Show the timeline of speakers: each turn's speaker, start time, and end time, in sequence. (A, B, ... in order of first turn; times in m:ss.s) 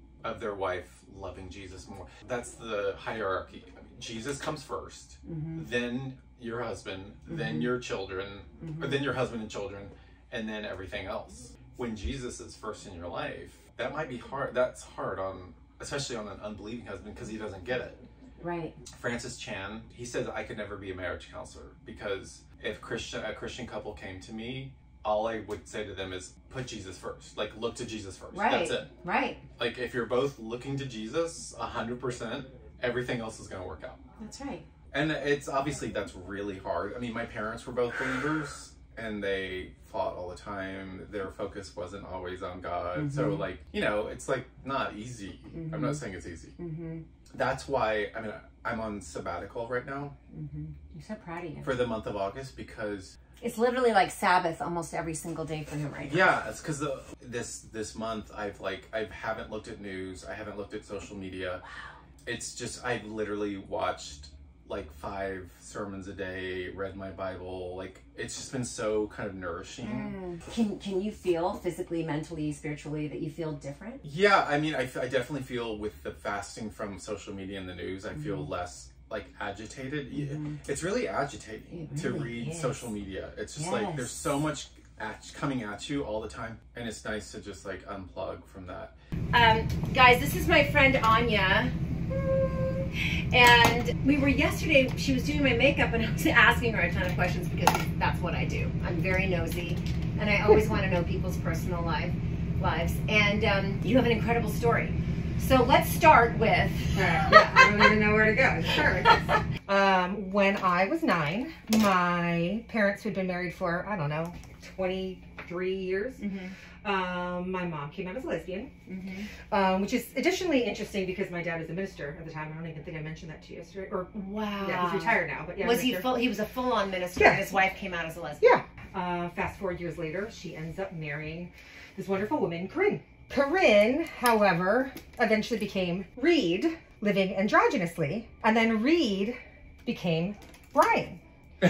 0:00.2-0:18.0 A
0:05.2-0:05.6 B
0:07.3-0:07.7 B
0:08.6-0:09.0 B
0:18.4-0:18.8 B
0:18.9-0:28.9 A
0:28.3-0:29.4 B
0:29.6-0:34.0 A
0:34.2-0:34.6 B
0:34.9-0:46.5 A
0:42.9-0:43.4 B
0:45.5-0:46.0 B
0:46.6-0:47.0 B
0:47.3-0:50.1 A
0:50.3-0:51.8 B
0:51.6-0:53.2 A
0:53.4-0:56.3 B
0:56.0-1:01.6 A
1:02.2-1:10.2 A
1:09.8-1:14.0 B
1:14.0-1:28.9 A
1:18.1-1:18.5 B
1:20.1-1:20.6 B
1:21.7-1:22.9 B
1:23.5-1:24.4 B
1:29.3-1:48.0 B
1:46.9-1:56.2 C
1:56.2-1:56.6 B
1:56.8-1:58.7 C
1:58.9-1:59.3 B
1:59.5-2:06.2 C
2:04.1-2:08.6 B
2:07.2-2:07.6 C
2:08.4-2:21.2 C